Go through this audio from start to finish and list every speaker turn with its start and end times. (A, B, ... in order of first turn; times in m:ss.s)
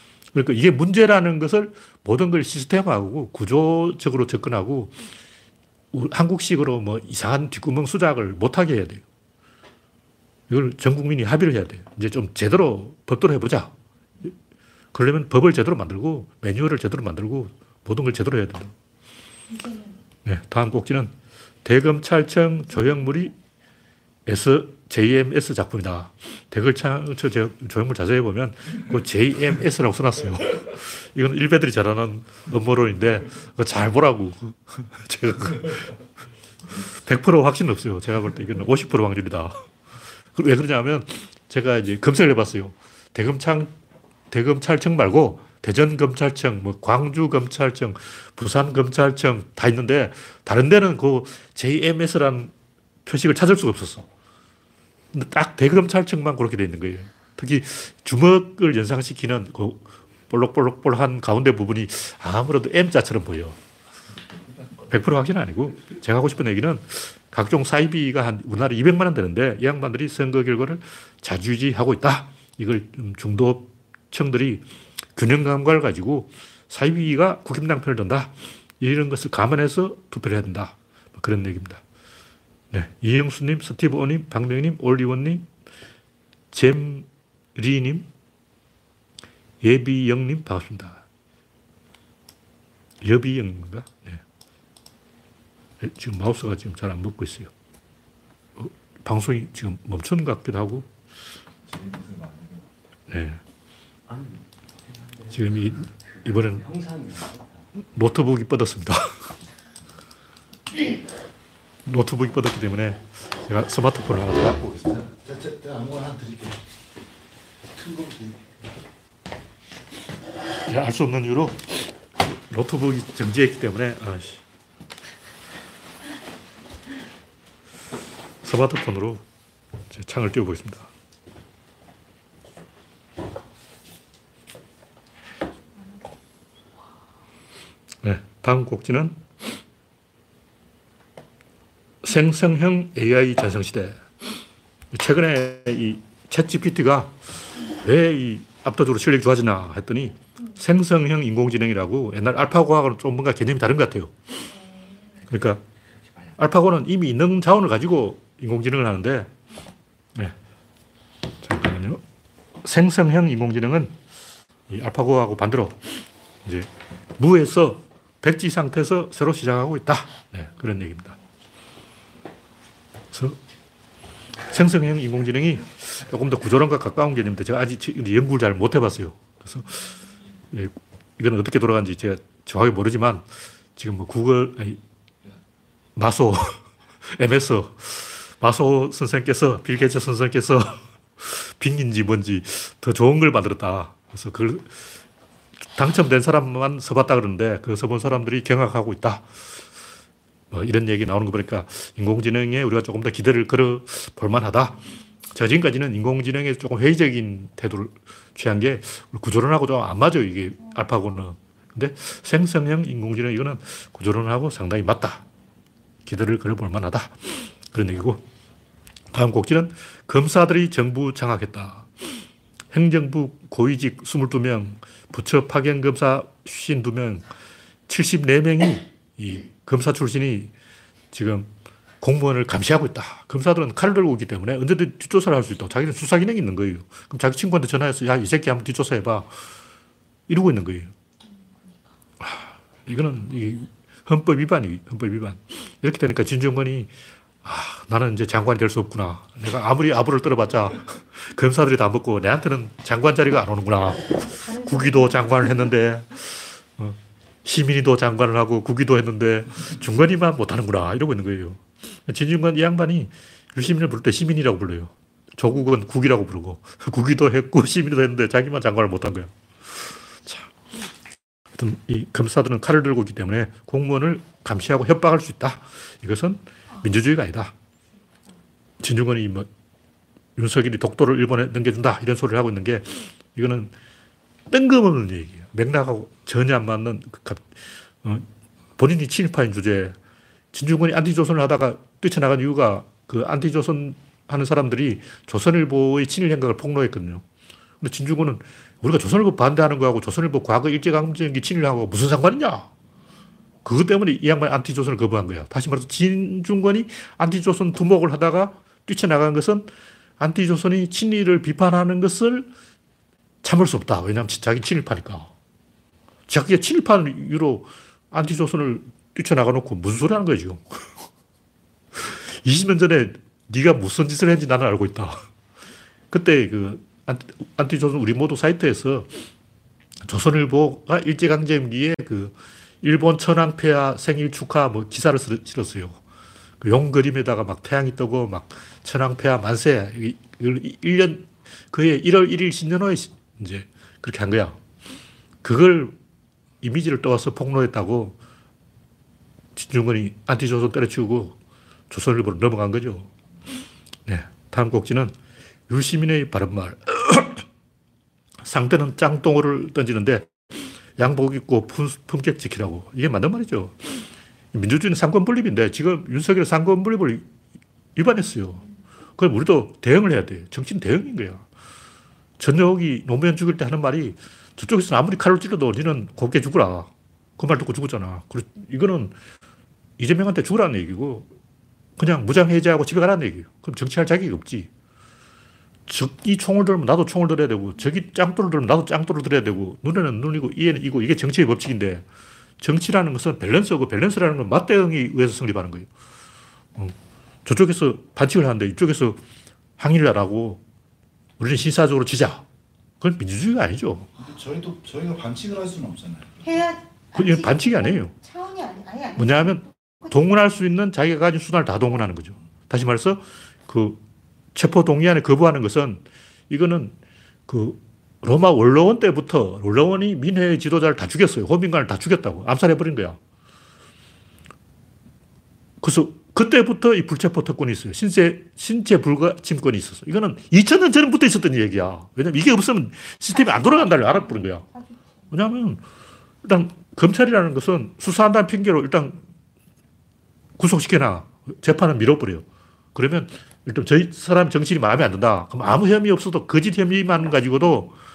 0:00.3-0:05.0 A
0:05.9-0:09.0 A
0:10.5-0:13.7 A
0:14.9-0:18.7 A
0:19.5-0:20.0 B
0:20.2-0:21.1 A
0:21.6-0:23.3 A
0:24.2-0:35.9 A
0:36.9-0:39.7 A
0:40.3-0:43.7 A
0:44.3-0:52.5 A
0:53.0-0:54.1 A
0:55.1-1:03.6 A
1:04.3-1:04.8 C
1:04.9-1:14.6 A
1:15.1-1:21.8 A
1:22.7-1:25.5 A
1:26.5-1:28.1 A
1:29.6-1:31.0 A
1:33.0-1:34.2 A
1:35.8-1:37.5 A
1:38.6-1:40.9 A
1:41.6-1:42.7 C
1:43.1-1:43.4 A
1:44.0-1:45.4 C
1:45.3-1:46.7 A
1:46.2-1:47.6 C
1:47.8-1:49.3 A
1:51.8-1:54.8 A
1:54.6-1:56.6 C
1:57.7-1:58.5 C
2:00.7-2:04.4 A
2:08.4-2:09.2 A
2:09.9-2:10.9 A
2:18.0-2:19.2 A
2:22.0-2:24.0 A
2:24.9-2:27.2 A
2:27.7-2:34.1 A
2:34.5-2:35.2 B
2:35.3-2:35.6 A
2:36.4-2:39.3 A
2:41.4-2:42.0 A
2:42.6-2:43.9 A
2:44.7-2:45.8 A
2:46.4-2:51.2 A
2:53.1-2:53.4 A
2:54.4-2:59.9 A
3:00.5-3:04.8 A
3:06.0-3:14.7 A
3:15.7-3:19.2 A
3:20.5-3:24.8 A
3:25.3-3:35.2 A
3:36.0-3:38.2 A
3:39.1-3:41.9 A
3:42.7-3:47.2 A
3:47.9-3:50.5 A
3:51.1-3:51.5 A
3:52.0-3:59.3 A
4:00.3-4:00.9 A
4:02.2-4:06.9 A
4:07.4-4:29.3 A
4:14.2-4:15.7 B
4:30.2-4:30.5 A
4:31.6-4:37.5 A
4:38.8-4:39.5 A
4:40.4-4:43.7 A
4:44.5-4:48.3 A
4:48.8-4:50.0 A
4:50.5-4:57.2 A
4:57.8-5:02.7 A
5:03.6-5:12.5 A
5:13.4-5:15.3 A
5:16.3-5:20.6 A
5:22.0-5:25.2 A
5:26.1-5:29.2 A
5:30.0-5:36.0 A
5:36.6-5:44.6 A
5:45.4-5:45.9 A
5:46.6-5:48.2 A
5:49.6-5:51.4 A
5:51.9-5:53.1 A
5:54.0-5:55.1 A
5:55.7-5:57.4 A
5:58.4-6:04.0 A
6:04.5-6:07.2 A
6:08.0-6:08.6 A
6:09.2-6:11.4 A
6:12.4-6:19.1 A
6:20.0-6:21.3 A
6:22.0-6:24.7 A
6:25.9-6:32.0 A
6:32.6-6:35.9 A
6:36.8-6:39.2 A
6:39.8-6:40.6 A
6:41.4-6:42.4 A
6:43.0-6:44.1 A
6:44.2-6:46.5 C
6:46.4-6:50.1 B
6:47.1-6:48.1 A
6:49.2-6:54.0 A
6:54.5-6:56.9 A
6:57.5-7:03.2 A
7:05.8-7:14.6 A
7:13.5-7:14.9 B
7:15.3-7:15.8 A
7:16.4-7:19.2 A
7:20.6-7:27.9 A